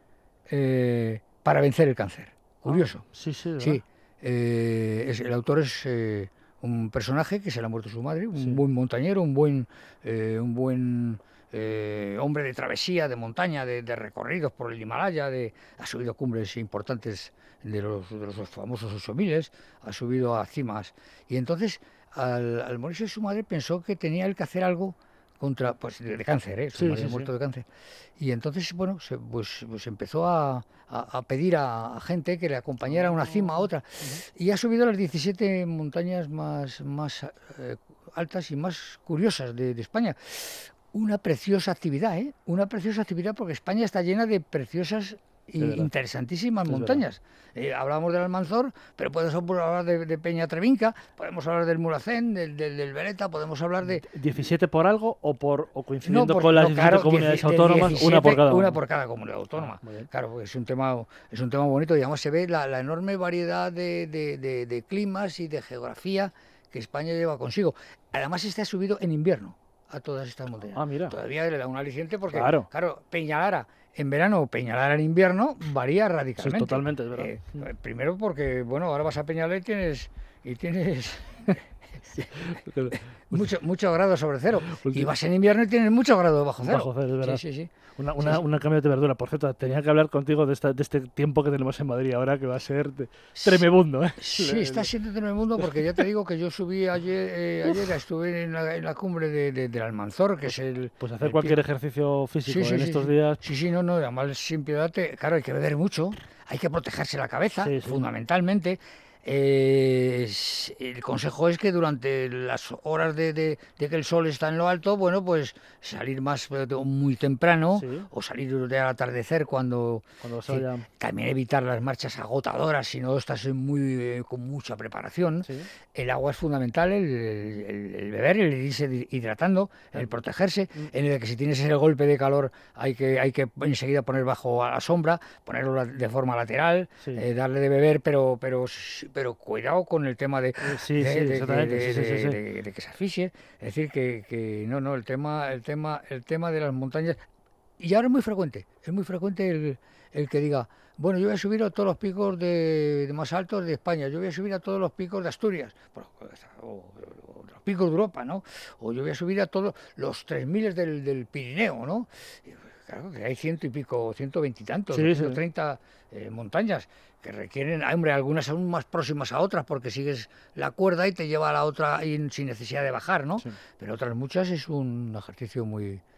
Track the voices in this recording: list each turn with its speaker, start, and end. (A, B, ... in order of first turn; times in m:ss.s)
0:00.5-0:03.0 A
0:02.6-0:03.8 B
0:03.6-0:27.7 A
0:08.4-0:08.6 B
0:26.7-0:27.3 B
0:28.2-0:54.1 A
0:32.9-0:34.2 B
0:45.6-0:45.9 B
0:46.7-0:47.0 B
0:53.8-0:58.8 B
0:56.0-1:28.4 A
0:59.5-1:00.1 B
1:10.7-1:11.2 B
1:12.3-1:12.7 B
1:16.4-1:17.6 B
1:22.2-1:23.5 B
1:24.6-1:25.1 B
1:26.6-1:27.4 B
1:28.0-1:34.9 B
1:33.4-1:33.6 A
1:34.2-1:41.6 A
1:41.0-1:43.4 B
1:42.4-2:27.2 A
1:47.6-1:48.0 B
1:57.8-1:58.1 B
2:00.2-2:00.8 B
2:20.6-2:22.4 B
2:27.8-2:56.0 A
2:44.9-2:45.4 B